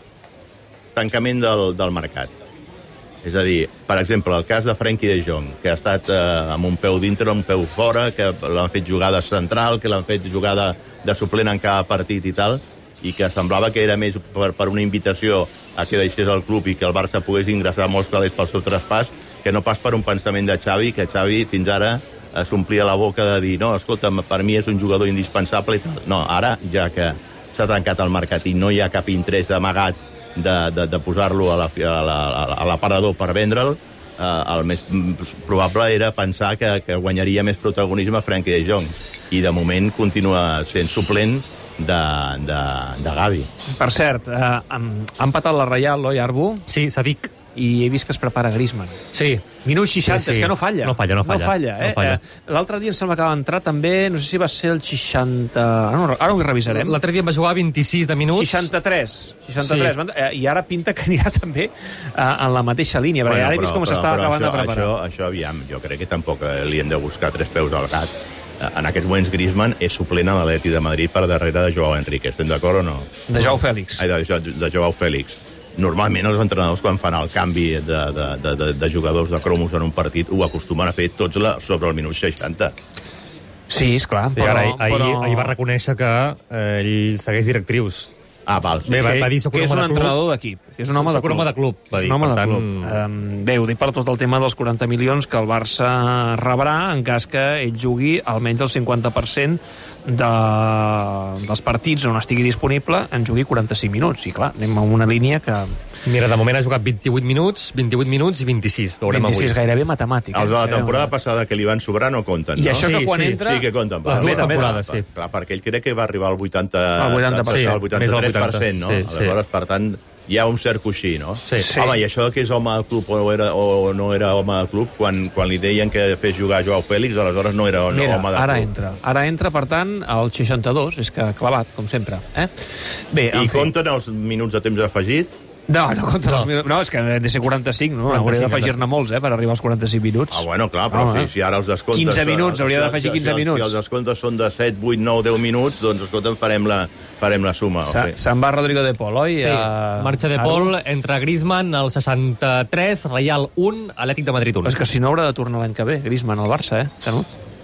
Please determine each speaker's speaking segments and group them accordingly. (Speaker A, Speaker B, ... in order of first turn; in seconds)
Speaker A: 0.9-2.3, 3.2-43.5, 63.3-82.7, 88.5-89.0, 110.3-128.7, 133.3-135.3, 140.3-148.2
Speaker B: 43.7-46.6, 47.5-49.0, 49.6-57.0, 58.3-64.9, 73.3-74.0, 83.7-85.5, 89.0-105.7, 109.1-111.1, 112.6-114.8, 117.0-117.8, 121.6-122.0, 127.9-132.5, 133.1-133.7, 135.7-141.3, 141.9-143.8, 147.8-150.7, 154.6-157.3
Speaker C: 46.7-47.3, 49.1-49.4, 50.0-52.2, 56.7-58.7, 59.6-60.0, 84.3-88.1, 88.8-90.2, 90.9-93.0, 106.0-109.6, 112.8-113.5, 114.0-115.0, 117.5-119.4, 138.1-138.8, 149.4-154.8